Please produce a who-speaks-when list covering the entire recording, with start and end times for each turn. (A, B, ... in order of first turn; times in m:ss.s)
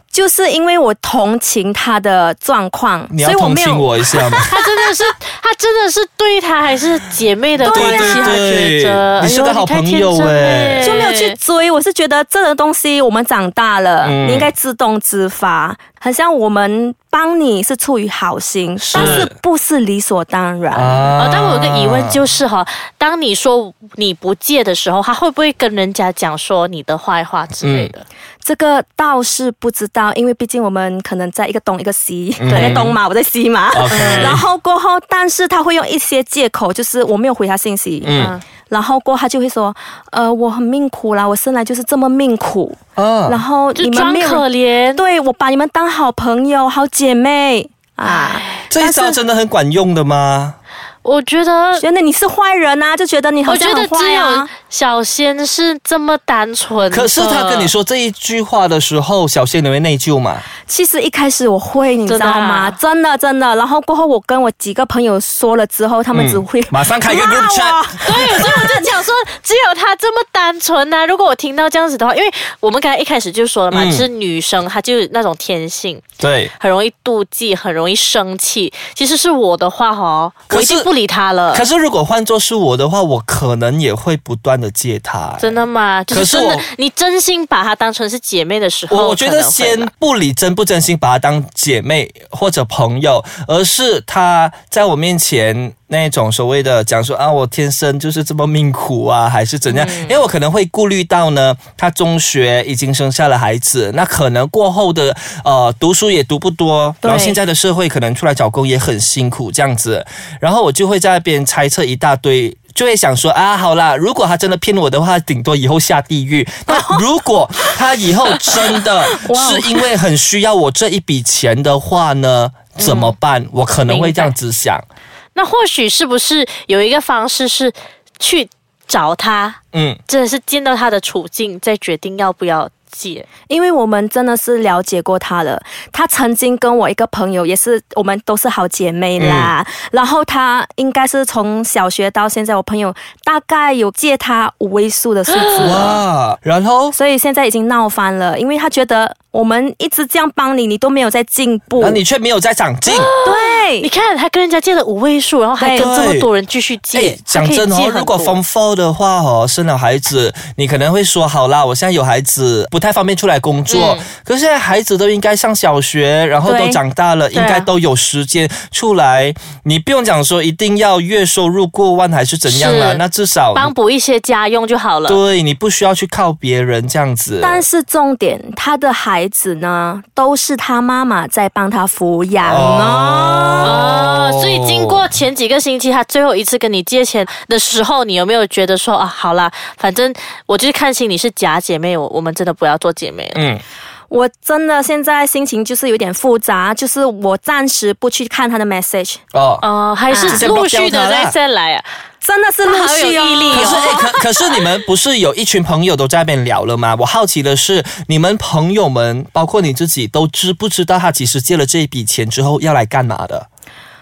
0:00.1-0:04.5 A
0:03.1-0:04.5 B
0:04.5-0:11.4 C
0:07.6-0:08.4 A
0:07.6-0:11.0 B
0:10.8-0:21.1 A
0:14.0-0:14.5 B
0:18.8-0:19.3 B
0:18.9-0:19.3 C
0:20.7-0:22.2 B
0:21.2-0:28.0 C
0:27.6-0:27.9 B
0:28.4-0:49.2 A
0:32.4-0:33.0 B
0:32.5-0:32.8 C
0:33.7-0:34.4 B
0:33.9-0:34.4 C
0:38.0-0:38.4 B
0:38.1-0:38.4 C
0:43.0-0:43.4 B
0:43.8-0:45.0 C
0:48.1-0:48.6 C
0:48.7-0:50.6 B
0:51.0-0:51.8 C
0:51.8-0:54.5 A
0:53.4-0:57.7 C
0:56.9-1:00.4 B
1:00.7-1:09.0 A
1:02.1-1:02.8 C
1:06.1-1:08.2 B
1:08.0-1:16.0 C
1:13.7-1:14.1 B
1:16.2-1:16.5 B
1:16.6-1:21.6 C
1:20.5-1:20.9 B
1:21.5-1:26.6 B
1:25.4-1:29.9 C
1:28.9-2:04.8 B
1:39.7-1:40.2 C
1:47.0-1:47.4 A
1:56.7-1:57.0 A
1:58.5-1:59.9 A
2:02.8-2:03.1 C
2:03.9-2:04.3 C
2:05.3-2:13.3 C
2:09.7-2:10.0 B
2:13.5-2:26.0 A
2:19.2-2:19.5 B
2:25.3-2:26.0 C
2:25.6-2:27.0 B
2:26.9-2:32.0 A
2:31.8-2:33.1 B
2:32.8-2:38.4 C
2:33.2-2:33.9 A
2:35.6-2:35.9 A
2:35.7-2:36.3 B
2:36.9-2:53.7 B
2:43.7-2:44.0 C
2:46.4-2:46.8 A
2:47.3-2:47.7 C
2:52.5-2:53.0 C
2:53.5-2:55.2 C
2:55.1-2:57.6 B
2:57.4-3:03.8 A
3:02.4-3:05.0 B
3:03.6-3:13.4 C
3:13.3-3:13.6 B
3:14.1-3:19.2 A
3:19.3-3:19.6 B
3:19.6-3:21.8 C
3:20.1-3:20.5 A
3:20.3-3:21.3 B
3:22.2-3:24.0 A
3:22.6-3:24.2 C
3:23.5-3:33.4 B